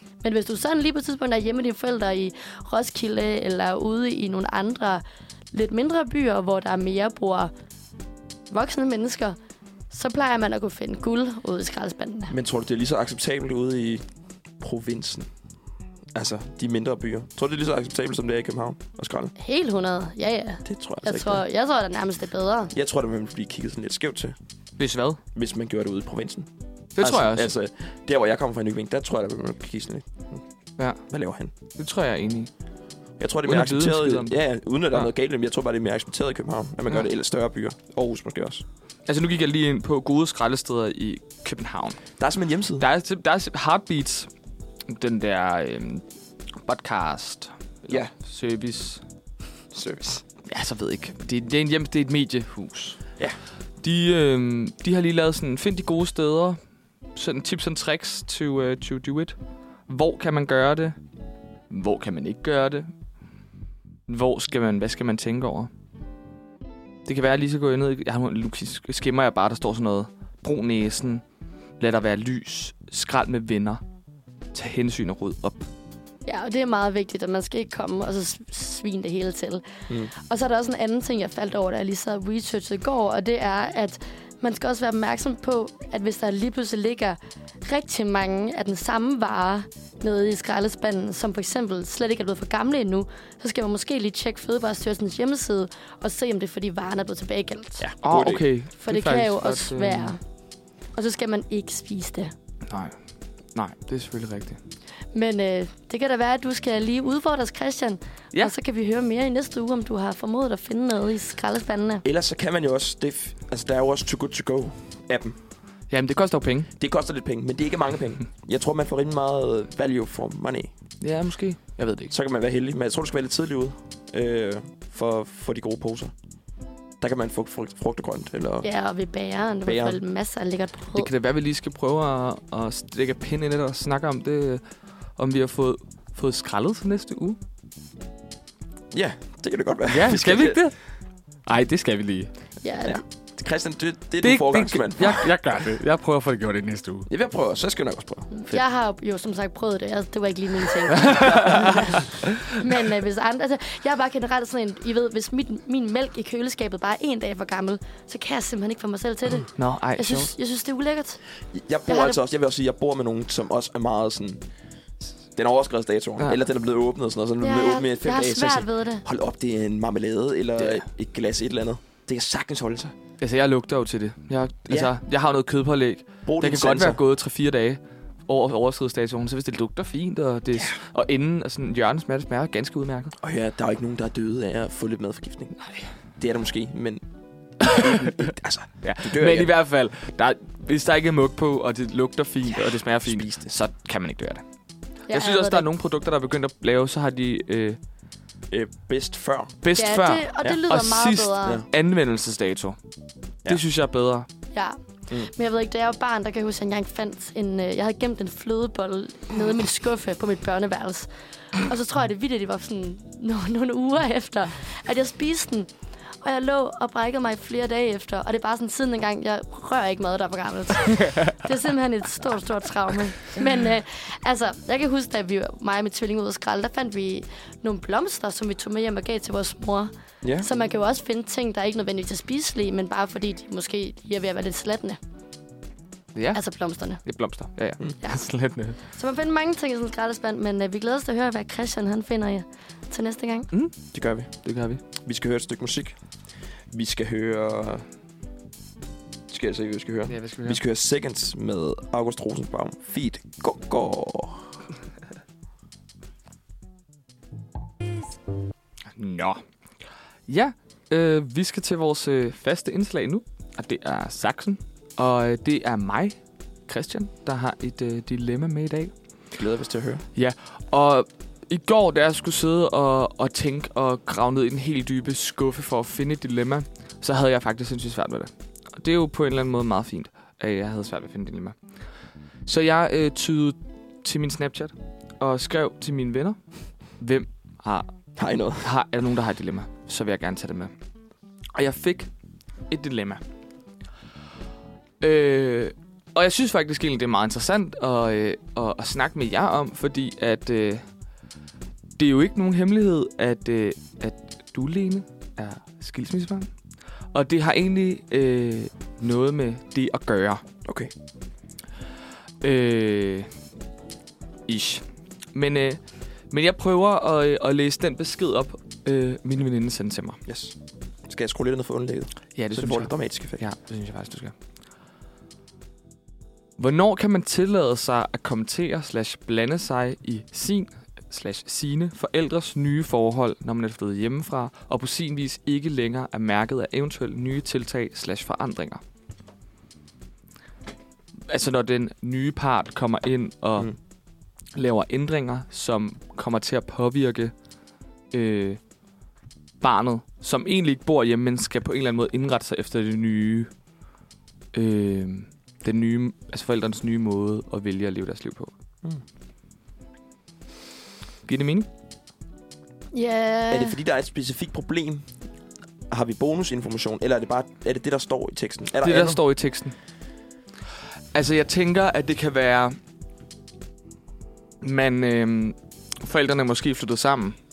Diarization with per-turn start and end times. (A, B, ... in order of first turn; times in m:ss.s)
0:00.2-0:07.5 A
0:08.5-0:09.4 A
0:09.9-0:12.3 A
0:12.3-0:14.0 B
0:14.6-0:15.3 B
0:16.1-0:19.3 B
0:19.4-0:22.7 A
0:20.6-0:21.4 B
0:22.7-0:24.4 B
0:24.8-0:25.2 C
0:25.3-0:26.5 B
0:27.0-0:27.5 C
0:27.0-0:30.4 B
0:31.1-0:31.5 B
0:31.8-0:32.5 C
0:33.2-0:38.6 B
0:33.5-0:34.4 C
0:39.1-0:42.0 C
0:42.2-0:42.9 B
0:42.8-0:44.3 C
0:44.9-0:46.0 C
0:46.6-0:49.0 C
0:49.7-0:50.2 B
0:50.4-0:53.0 C
0:53.8-0:56.6 C
0:57.2-0:59.4 C
0:59.9-1:01.0 C
1:01.7-1:02.9 C
1:04.1-1:05.7 C
1:07.1-1:11.2 C
1:11.8-1:13.8 C
1:14.5-1:15.7 C
1:16.3-1:37.9 A
1:37.8-1:38.5 B
1:38.0-1:40.2 C
1:38.8-1:40.2 A
1:41.0-1:42.3 A
1:42.7-1:43.0 C
1:43.5-1:44.6 C
1:45.1-1:52.0 A
1:52.0-1:55.4 B
1:55.9-1:56.7 C
1:56.8-2:00.7 B
2:01.0-2:02.1 C
2:02.1-2:06.1 B
2:07.0-2:08.7 B
2:08.6-2:11.1 A
2:09.7-2:10.0 B
2:11.0-2:14.6 C
2:15.2-2:17.4 C
2:18.9-2:20.6 B
2:19.9-2:20.8 C
2:21.5-2:22.3 C
2:22.6-2:23.0 A
2:22.8-2:25.3 B
2:24.2-2:27.1 C
2:27.1-2:28.3 B
2:28.3-2:41.2 A
2:31.0-2:31.8 C
2:31.1-2:31.9 B
2:39.6-2:40.3 C
2:41.5-2:44.4 B
2:41.9-2:42.2 A
2:45.4-2:53.0 B
2:47.4-2:49.0 A
2:50.6-2:50.8 C
2:53.2-3:03.2 C
2:56.3-2:57.0 B
3:03.2-3:05.6 B
3:06.2-3:07.0 B
3:07.6-3:09.5 B
3:07.6-3:08.1 C
3:08.8-3:14.4 C
3:12.5-3:13.5 B
3:15.1-3:15.7 A
3:15.1-3:17.8 C
3:18.5-3:19.6 B
3:19.6-3:22.8 C
3:19.7-3:21.6 A
3:23.5-3:24.3 C
3:24.5-3:35.7 A
3:36.2-3:55.0 A
3:50.2-3:50.5 B
3:56.2-3:56.4 C
3:56.3-3:57.0 A
3:57.0-3:58.8 C
3:58.9-4:03.5 A
4:03.9-4:04.3 B
4:04.4-4:04.8 C
4:05.0-4:06.0 B
4:06.7-4:07.8 B
4:09.3-4:14.6 B
4:10.1-4:10.6 C
4:18.9-4:19.4 C
4:20.3-4:28.9 C
4:29.4-4:30.0 B
4:30.2-4:41.6 C
4:42.5-4:46.4 C
4:47.0-4:47.9 C
4:48.2-4:48.7 B
4:48.6-4:50.7 C
4:51.5-4:52.1 C
4:52.7-4:53.2 C
4:55.0-5:00.8 C
5:02.0-5:06.5 C
5:07.1-5:10.4 C
5:10.6-5:10.9 B
5:12.4-5:13.3 C
5:14.5-5:20.2 C
5:20.3-5:23.4 B
5:22.4-5:24.3 C
5:26.6-5:38.8 C
5:41.3-5:43.7 C
5:44.5-5:47.3 C
5:48.1-5:48.6 C
5:49.6-5:53.5 C
5:54.5-5:58.5 C
6:01.3-6:01.7 C
6:02.9-6:03.8 A
6:03.5-6:05.1 B
6:05.9-6:09.2 B
6:08.8-6:09.8 C
6:11.1-6:12.8 C
6:14.6-6:17.4 C